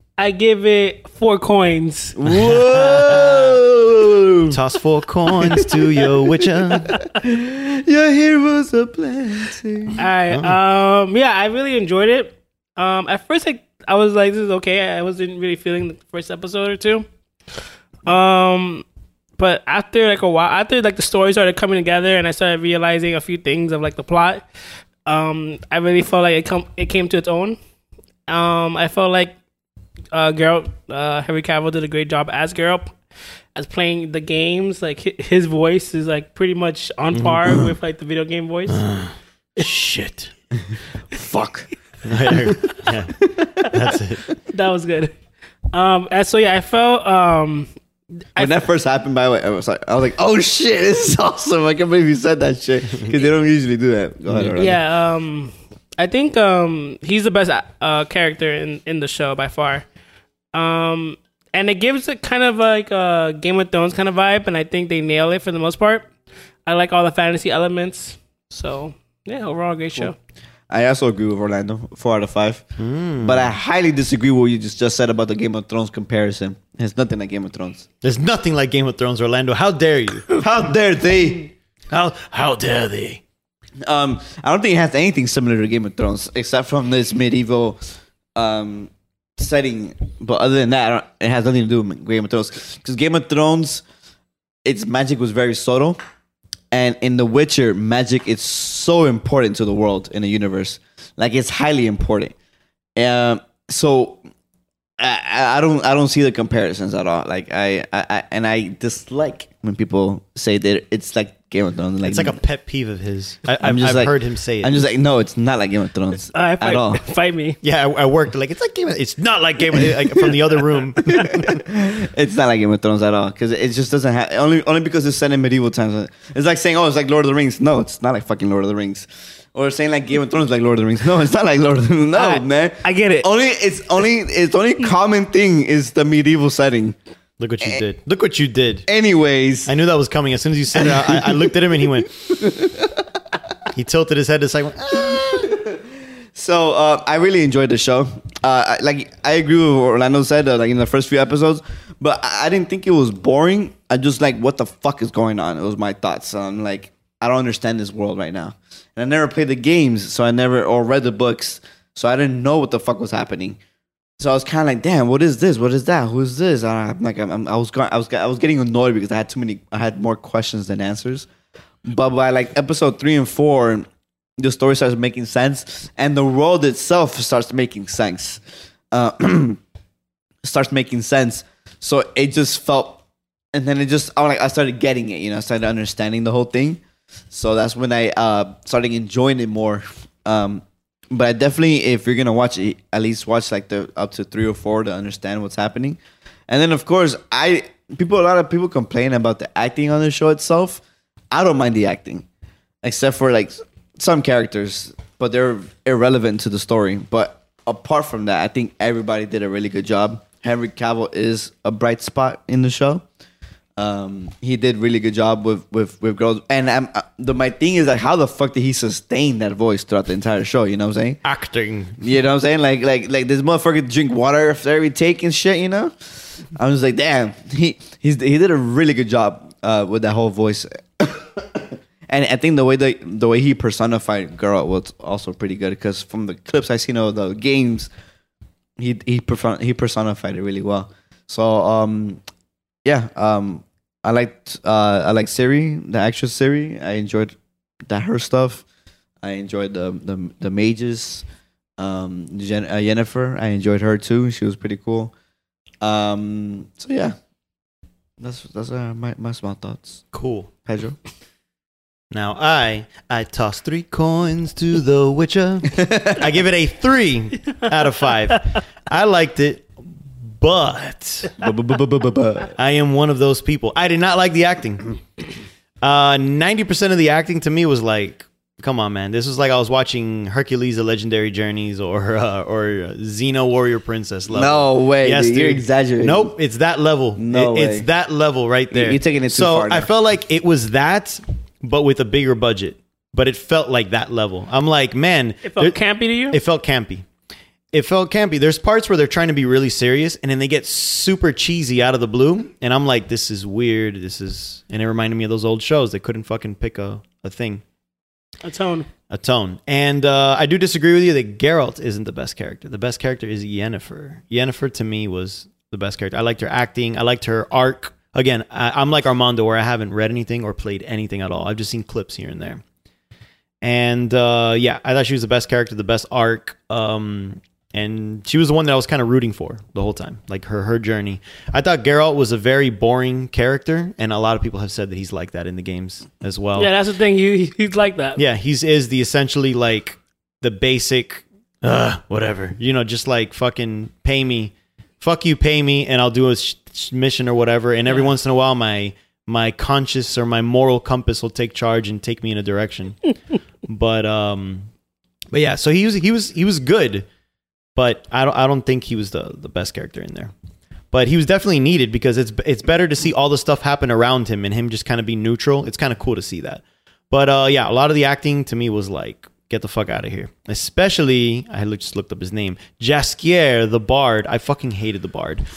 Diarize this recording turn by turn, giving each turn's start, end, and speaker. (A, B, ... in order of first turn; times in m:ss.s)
0:00.2-0:03.2 A
0:02.2-0:04.6 B
0:04.5-0:07.0 C
0:05.3-0:10.0 B
0:10.0-0:17.1 A
0:10.3-0:10.6 C
0:18.1-0:18.8 A
0:19.4-0:24.4 A
0:25.1-0:27.6 A
0:28.3-0:29.4 A
0:30.1-0:33.0 A
0:33.6-0:38.8 A
0:37.1-0:37.5 C
0:38.7-0:40.3 C
0:41.1-0:41.7 B
0:42.0-0:44.3 C
0:43.2-0:43.7 B
0:44.5-0:45.1 A
0:45.7-0:47.7 A
0:48.4-0:54.8 B
0:54.3-0:54.6 C
0:54.6-0:59.9 A
1:00.5-1:06.1 A
1:06.7-1:10.2 A
1:10.7-1:12.7 B
1:12.8-1:13.5 C
1:13.2-1:17.9 B
1:18.0-1:20.4 C
1:20.4-1:21.5 B
1:21.9-1:23.2 C
1:23.8-1:27.8 B
1:28.4-1:33.8 B
1:34.6-1:36.0 B
1:36.7-1:42.3 B
1:43.0-1:44.2 B
1:45.0-1:52.4 B
1:52.0-1:54.9 C
1:53.6-1:57.0 B
1:56.3-1:57.6 A
1:57.6-2:01.6 C
1:59.8-2:00.3 B
2:01.0-2:17.0 B
2:12.2-2:13.3 A
2:17.4-2:18.9 C
2:18.9-2:19.7 B
2:19.7-2:22.1 C
2:20.7-2:23.0 B
2:23.7-2:25.5 C
2:24.9-2:43.6 B
2:44.2-2:51.3 B
2:51.8-2:53.9 B
2:54.4-2:59.6 B
3:00.4-3:22.3 B
3:22.8-3:33.0 B
3:33.8-3:41.2 B
3:41.2-3:42.0 C
3:42.0-3:57.9 B
3:58.8-4:02.2 B
4:02.8-4:07.4 B
4:07.9-4:08.6 B
4:09.2-4:11.2 B
4:11.8-4:15.1 B
4:15.8-4:17.2 B
4:18.2-4:20.0 B
4:20.1-4:20.5 C
4:20.6-4:21.0 B
4:22.1-4:29.7 C
4:25.7-4:26.2 B
4:30.2-4:31.4 C
4:31.4-4:32.6 B
4:32.6-4:35.0 C
4:35.8-4:55.8 C
4:44.3-4:46.4 B
4:47.2-4:47.9 B
4:48.7-4:49.9 B
4:55.4-4:56.4 A
4:56.3-4:57.0 C
4:57.7-5:07.6 C
5:08.4-5:08.9 A
5:09.1-5:22.6 C
5:23.6-5:36.7 C
5:36.6-5:38.2 A
5:38.2-5:54.7 C
5:55.3-5:57.1 C
5:57.8-6:00.3 C
6:00.9-6:15.5 C